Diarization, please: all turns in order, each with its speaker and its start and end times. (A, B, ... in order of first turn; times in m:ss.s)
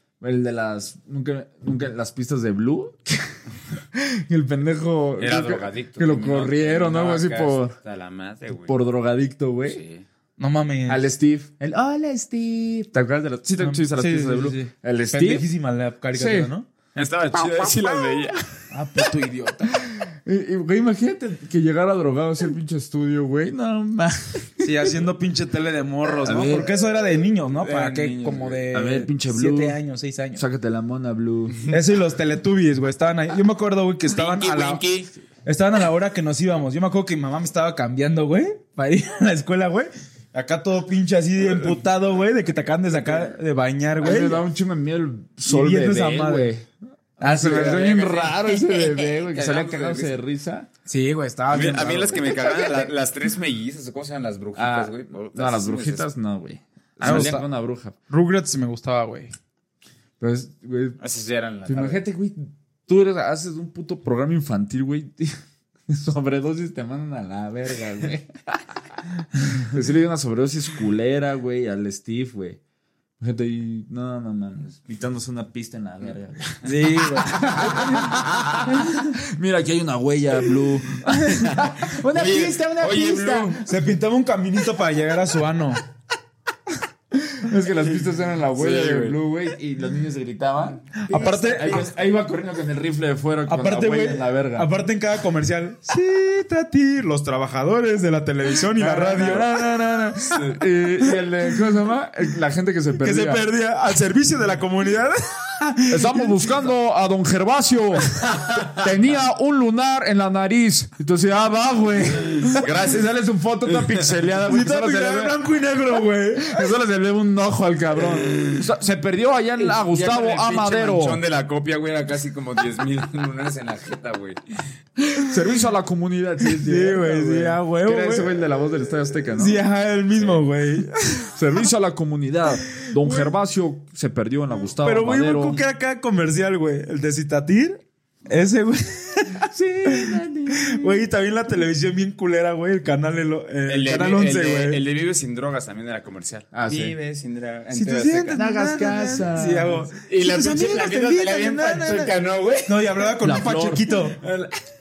0:00.2-0:03.3 A
0:03.9-0:07.8 A
0:05.2-0:08.7 B
0:08.7-0:09.8 A
0:09.7-0:10.0 B
0:10.4-0:11.1 C
0:10.9-0:15.5 A
0:13.6-0:16.7 C
0:16.1-0:16.5 A
0:17.0-0:18.5 B
0:18.7-0:19.9 C
0:19.7-0:24.9 A
0:24.6-0:30.4 C
0:26.2-0:26.7 A
0:27.6-0:28.7 B
0:28.7-0:29.8 A
0:30.4-0:31.6 A
0:31.7-0:34.8 C
0:34.1-0:35.1 B
0:35.4-0:44.4 C
0:44.0-0:46.7 A
0:45.5-0:46.5 C
0:47.2-0:50.7 A
0:47.2-0:50.1 B
0:50.9-0:52.9 C
0:51.5-0:56.1 B
0:54.6-0:58.0 A
0:57.0-0:57.5 C
0:57.0-0:57.3 B
0:58.1-0:59.3 C
1:00.2-1:01.0 A
1:01.0-1:02.0 B
1:01.7-1:05.4 A
1:05.9-1:08.6 A
1:09.3-1:12.6 A
1:13.2-1:23.6 A
1:16.6-1:17.9 C
1:17.8-1:18.7 B
1:21.1-1:21.5 C
1:21.4-1:23.6 B
1:23.5-1:25.8 C
1:27.2-1:34.7 A
1:28.6-1:29.2 B
1:31.0-1:31.9 C
1:33.5-1:39.6 C
1:38.7-1:43.4 A
1:40.3-1:40.6 B
1:43.0-1:46.4 C
1:45.9-1:55.4 A
1:48.3-1:48.8 B
1:52.5-1:53.0 B
1:53.7-1:54.2 B
1:54.4-1:56.6 C
1:56.4-2:01.2 A
1:59.6-2:04.4 B
2:05.2-2:09.6 A
2:06.6-2:08.4 C
2:09.4-2:11.3 C
2:11.3-2:15.6 A
2:12.8-2:13.3 C
2:14.8-2:24.8 C
2:19.4-2:21.0 A
2:23.7-2:28.4 B
2:26.5-2:27.0 A
2:27.7-2:32.1 C
2:28.3-2:29.9 A
2:30.1-2:33.1 B
2:32.7-2:34.2 C
2:33.2-2:33.9 A
2:34.2-2:34.5 B